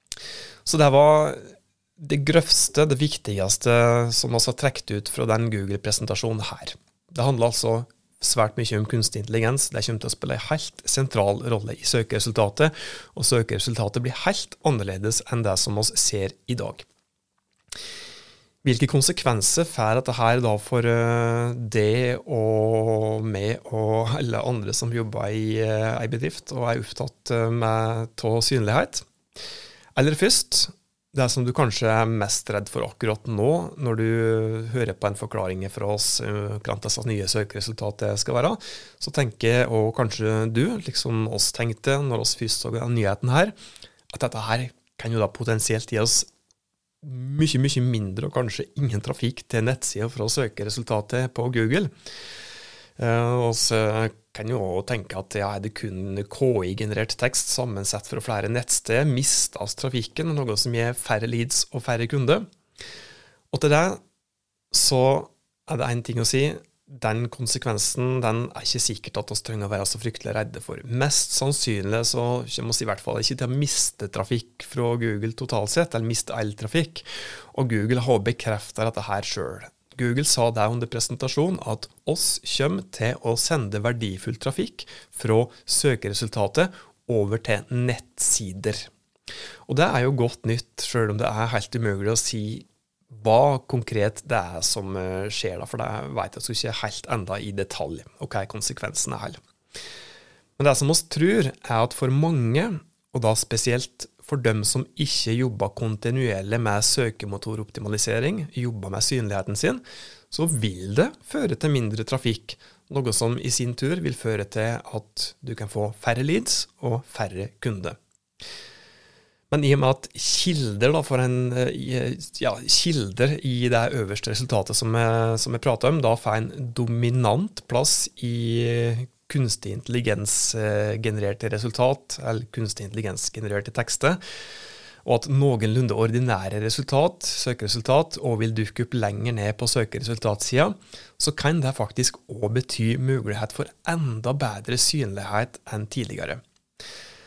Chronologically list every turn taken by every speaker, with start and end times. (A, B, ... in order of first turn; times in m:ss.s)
0:00.6-0:16.8 A
0:18.6-0:29.0 A
0:29.9-0:43.5 A
0:44.1-0:46.2 A
0:47.0-0:51.9 A
0:53.0-1:02.4 A
1:03.5-1:04.0 A
1:04.7-1:28.9 A
1:29.7-1:39.4 A
1:40.6-1:58.0 A
1:59.5-2:14.2 A
2:15.0-2:26.4 A